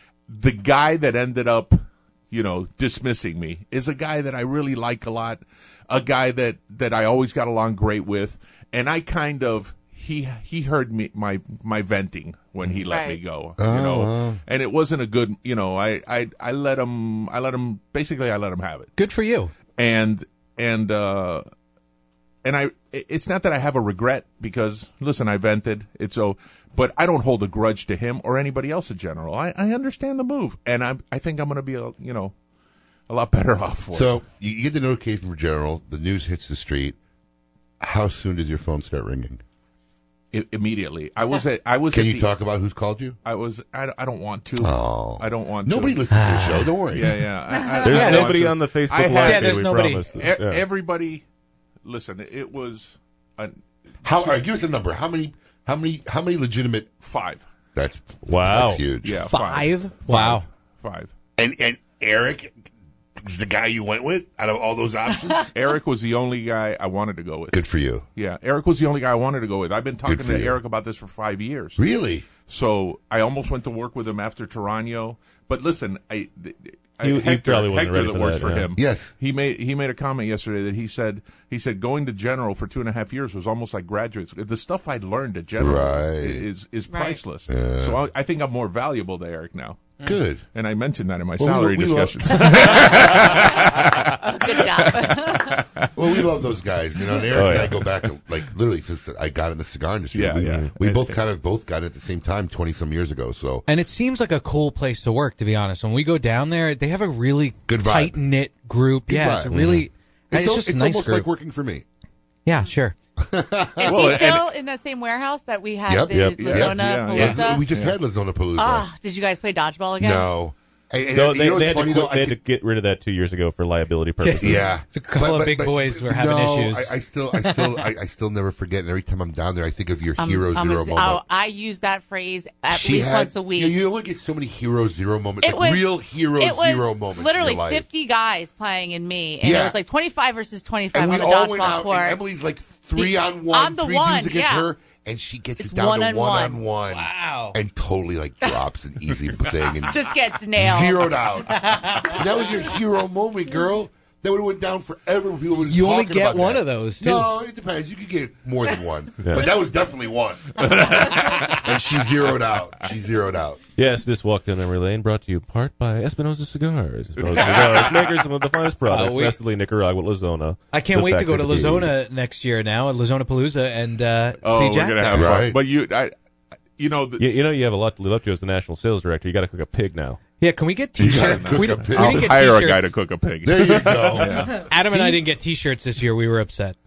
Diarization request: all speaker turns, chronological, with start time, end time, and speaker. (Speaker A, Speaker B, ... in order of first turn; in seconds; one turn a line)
Speaker A: 0.3-18.9
Speaker B: 12.9-13.2
Speaker C: 13.6-14.4
Speaker D: 19.0-19.5
Speaker A: 19.8-21.4
Speaker A: 22.4-32.3
Speaker A: 33.1-34.2
Speaker C: 33.9-37.0
Speaker C: 37.8-39.4
Speaker A: 40.3-42.3
Speaker C: 41.9-43.1
Speaker A: 43.2-46.1
Speaker C: 44.6-47.2
Speaker D: 46.1-46.7
Speaker A: 46.9-51.2
Speaker B: 47.5-48.0
Speaker E: 47.8-50.6
Speaker D: 47.9-48.3
Speaker D: 49.2-50.0
Speaker A: 51.8-53.6
Speaker C: 54.0-56.9
Speaker A: 57.0-57.5
Speaker C: 57.7-59.3
Speaker E: 58.2-58.8
Speaker A: 59.0-61.1
Speaker D: 59.2-60.4
Speaker C: 61.4-62.6
Speaker C: 63.2-65.5
Speaker A: 65.5-67.6
Speaker C: 67.5-68.0
Speaker A: 68.2-90.0
Speaker C: 70.0-70.6
Speaker C: 71.8-72.3
Speaker E: 77.0-78.7
Speaker C: 78.8-79.1
Speaker C: 85.6-86.5
Speaker B: 86.9-87.2
Speaker C: 87.5-88.0
Speaker C: 90.0-90.4
Speaker A: 90.5-96.4
Speaker C: 91.4-92.8
Speaker B: 94.2-95.6
Speaker C: 96.0-103.6
Speaker E: 97.3-97.9
Speaker A: 100.1-101.2
Speaker E: 100.4-100.7
Speaker D: 103.7-111.3
Speaker C: 107.7-108.2
Speaker C: 109.1-109.6
Speaker E: 109.5-109.9
Speaker C: 110.3-111.8
Speaker D: 112.5-112.9
Speaker C: 113.2-114.3
Speaker B: 113.8-117.7
Speaker A: 113.8-114.4
Speaker C: 115.9-118.9
Speaker E: 116.1-116.7
Speaker A: 116.4-118.0
Speaker B: 118.5-120.3
Speaker C: 120.0-122.4
Speaker E: 121.1-124.7
Speaker D: 124.2-127.8
Speaker C: 124.4-131.2
Speaker B: 130.2-133.8
Speaker C: 132.7-137.9
Speaker B: 135.4-142.2
Speaker C: 139.4-139.8
Speaker C: 140.9-163.6
Speaker B: 142.9-144.7
Speaker B: 145.6-146.6
Speaker D: 146.9-147.6
Speaker B: 149.8-151.3
Speaker D: 151.7-152.1
Speaker D: 155.7-157.3
Speaker E: 159.2-159.5
Speaker A: 160.6-161.5
Speaker E: 163.8-171.9
Speaker A: 167.2-168.2
Speaker D: 168.9-169.3
Speaker D: 170.7-175.3
Speaker A: 174.4-176.1
Speaker C: 175.1-175.6
Speaker A: 176.8-177.2
Speaker E: 177.2-180.2
Speaker D: 180.4-182.9
Speaker C: 181.0-182.6
Speaker A: 181.1-184.6
Speaker C: 183.4-185.2
Speaker D: 184.5-186.8